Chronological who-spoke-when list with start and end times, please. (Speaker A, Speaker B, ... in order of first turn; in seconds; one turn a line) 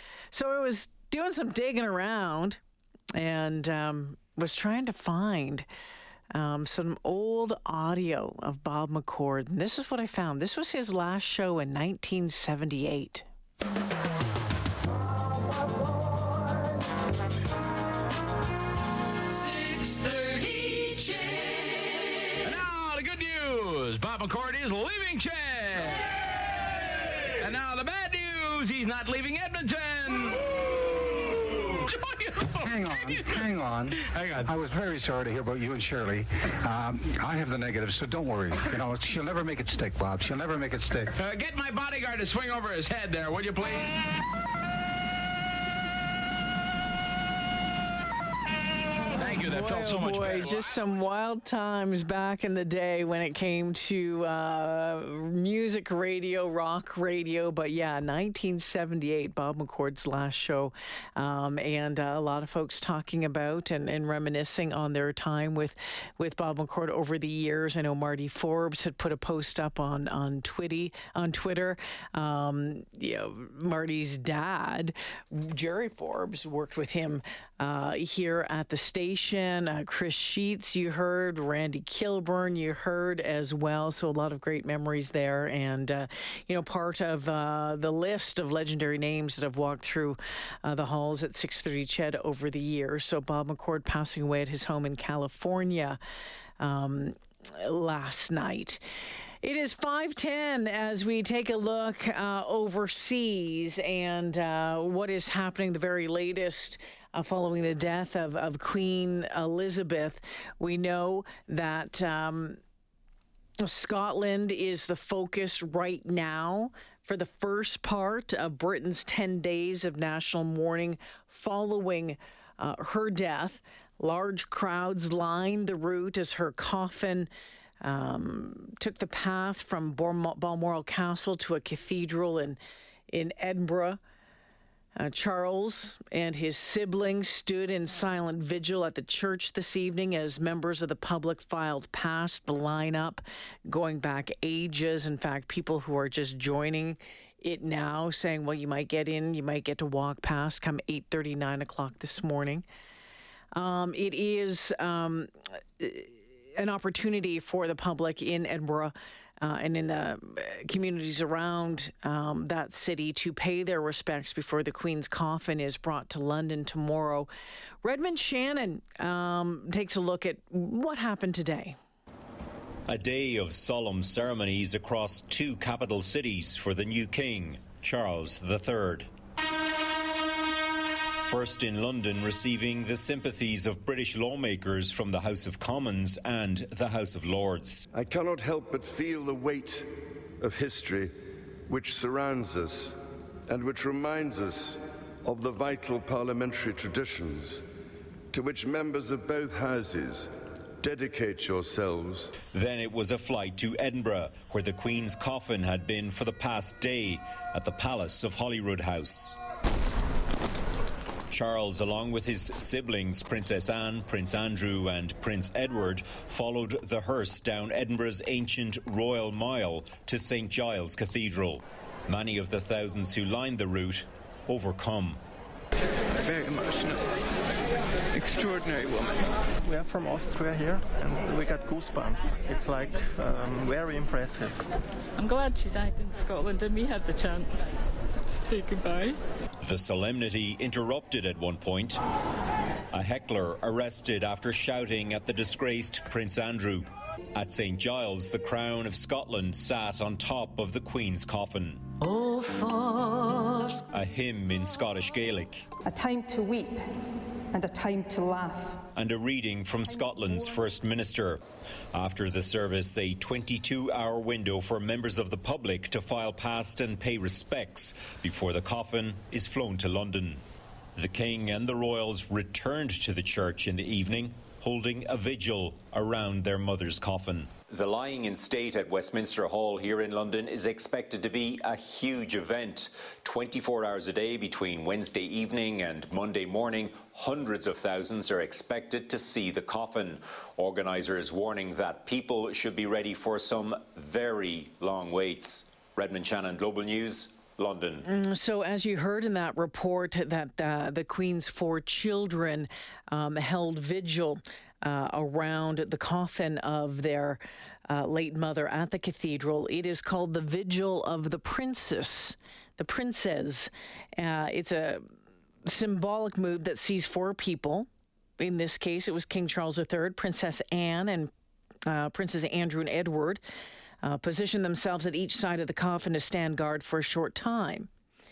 Speaker A: 0.3-2.6
Speaker A: 3.1-5.7
Speaker A: 6.3-13.3
Speaker B: 22.4-26.0
Speaker B: 27.4-30.4
Speaker B: 31.9-34.5
Speaker C: 32.6-41.1
Speaker B: 41.1-43.9
Speaker A: 49.0-96.0
Speaker B: 49.1-50.7
Speaker A: 96.6-98.8
Speaker A: 99.4-112.6
Speaker A: 113.6-127.3
Speaker A: 127.8-132.6
Speaker A: 133.1-134.0
Speaker A: 134.9-152.6
Speaker A: 153.5-167.3
Speaker A: 167.8-171.8
Speaker D: 172.9-179.1
Speaker D: 181.2-187.9
Speaker E: 187.9-189.9
Speaker E: 190.4-191.1
Speaker E: 191.7-192.9
Speaker E: 193.5-197.6
Speaker E: 198.3-202.3
Speaker D: 202.5-209.3
Speaker D: 211.3-225.2
Speaker F: 226.2-227.1
Speaker F: 228.1-234.6
Speaker G: 235.2-237.5
Speaker G: 238.4-239.2
Speaker D: 239.6-242.0
Speaker D: 242.9-252.1
Speaker H: 252.2-253.4
Speaker D: 253.9-255.7
Speaker H: 255.8-256.8
Speaker H: 257.5-258.8
Speaker D: 258.9-261.4
Speaker D: 261.9-270.4
Speaker D: 271.0-298.1
Speaker A: 298.1-315.0
Speaker A: 315.7-317.9
Speaker A: 318.4-321.3
Speaker A: 321.9-323.4
Speaker A: 324.0-327.9